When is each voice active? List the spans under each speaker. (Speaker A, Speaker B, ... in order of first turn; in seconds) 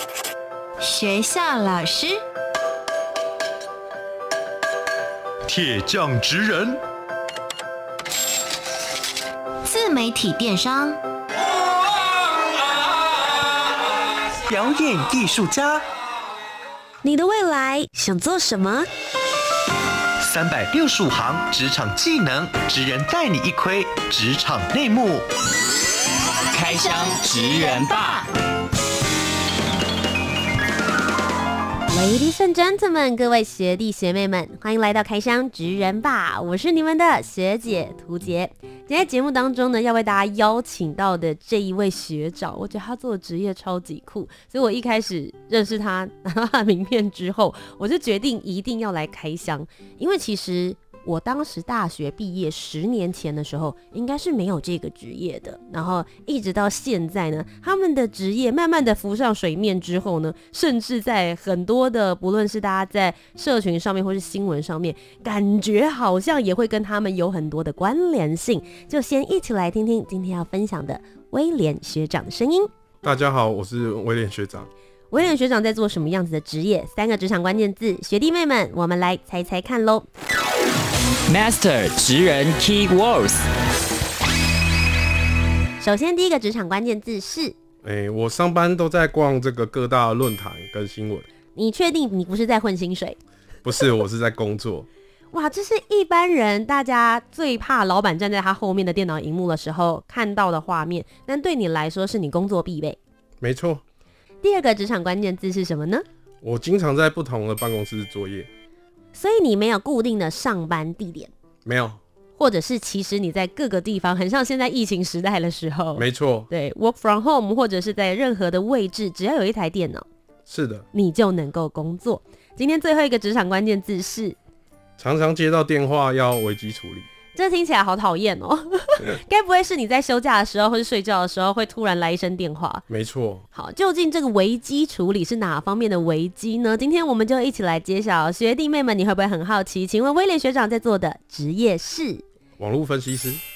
Speaker A: 0.8-2.2, 9.6-11.0
Speaker B: 5.5-6.8, 14.4-15.8, 20.2-25.2
Speaker C: 17.0-18.9, 31.9-72.7, 75.1-80.1, 85.8-87.5, 91.5-93.2, 95.3-103.0, 104.4-106.0, 109.1-111.3, 112.4-120.0, 120.9-124.3, 127.3-132.8, 133.5-142.2
Speaker D: 26.5-28.3, 81.3-83.4
Speaker E: 73.0-74.7, 87.8-91.3, 93.6-94.9, 103.4-103.8, 106.4-108.5, 111.6-112.0, 116.0-116.5, 120.5-120.9, 125.0-127.1, 132.9-133.4, 142.6-143.4